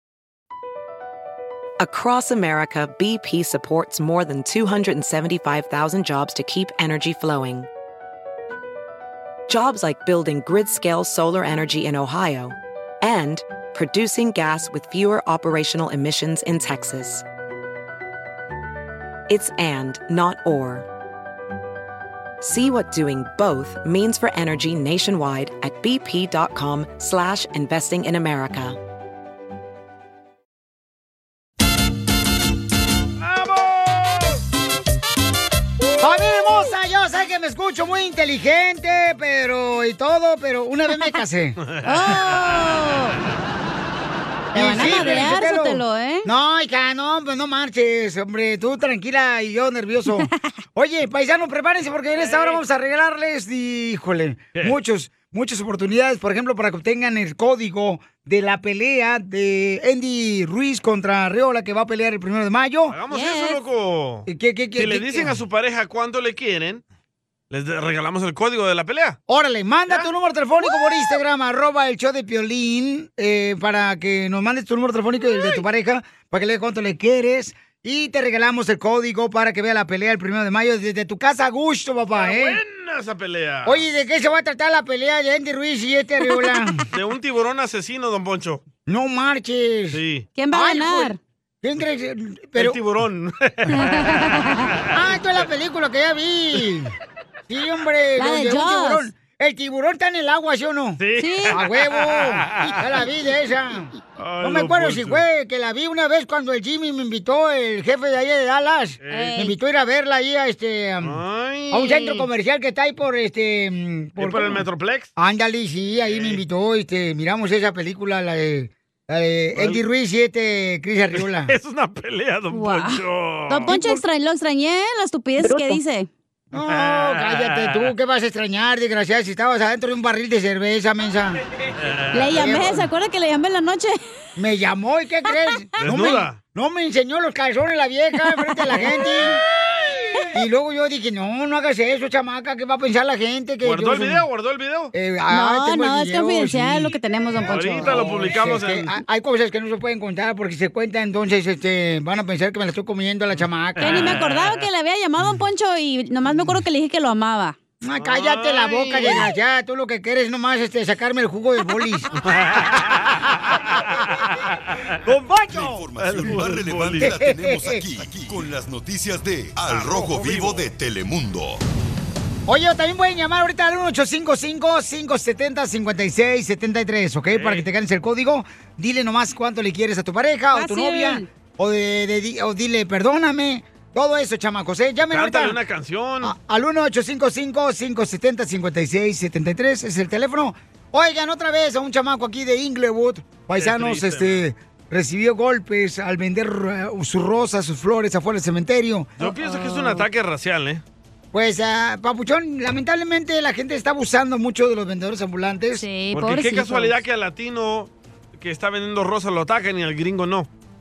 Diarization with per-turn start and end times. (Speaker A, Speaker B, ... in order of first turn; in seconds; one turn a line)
Speaker A: 1.8-7.7
Speaker A: 9.5-17.2
Speaker A: 19.3-20.9
Speaker A: 22.4-28.8
Speaker B: 33.2-34.4
Speaker C: 36.0-41.6
Speaker B: 41.7-42.6
Speaker D: 41.9-43.2
Speaker D: 44.5-46.3
Speaker C: 44.5-63.0
Speaker B: 44.8-45.2
Speaker B: 52.2-52.6
Speaker B: 62.9-66.8
Speaker D: 63.1-63.6
Speaker C: 64.3-65.4
Speaker B: 67.5-69.2
Speaker C: 69.3-82.6
Speaker B: 82.1-83.9
Speaker C: 83.6-86.8
Speaker B: 86.9-88.6
Speaker C: 88.9-90.0
Speaker B: 89.9-90.3
Speaker D: 90.3-91.2
Speaker C: 90.5-92.8
Speaker B: 92.5-95.2
Speaker D: 93.7-94.6
Speaker C: 94.9-96.9
Speaker C: 97.5-111.2
Speaker D: 98.2-99.0
Speaker B: 101.0-102.8
Speaker D: 101.2-101.5
Speaker B: 104.2-105.2
Speaker B: 109.0-109.3
Speaker D: 109.1-109.5
Speaker B: 111.0-112.2
Speaker C: 111.7-114.6
Speaker B: 114.2-115.1
Speaker C: 115.2-121.5
Speaker B: 116.0-116.4
Speaker B: 119.5-119.8
Speaker B: 121.1-123.8
Speaker D: 122.5-126.1
Speaker C: 123.7-124.0
Speaker C: 126.5-131.4
Speaker B: 126.7-127.9
Speaker B: 131.8-132.6
Speaker D: 132.1-133.9
Speaker C: 132.4-132.9
Speaker C: 134.4-139.4
Speaker B: 135.8-136.4
Speaker C: 140.3-144.2
Speaker B: 143.6-144.9
Speaker C: 144.9-153.9
Speaker D: 145.3-148.4
Speaker B: 147.4-149.0
Speaker B: 153.8-154.7
Speaker D: 153.8-157.6
Speaker C: 157.8-162.1
Speaker B: 158.0-159.2
Speaker B: 162.2-163.7
Speaker C: 163.2-164.2
Speaker E: 165.1-171.6
Speaker C: 165.3-165.8
Speaker B: 166.0-167.1
Speaker C: 167.0-167.8
Speaker B: 169.7-170.7
Speaker C: 172.5-185.6
Speaker B: 177.3-177.6
Speaker D: 180.5-181.3
Speaker B: 185.1-186.3
Speaker C: 186.2-199.1
Speaker B: 193.6-194.4
Speaker B: 199.2-200.8
Speaker D: 199.4-200.0
Speaker C: 201.3-205.9
Speaker D: 205.8-206.9
Speaker B: 206.1-210.5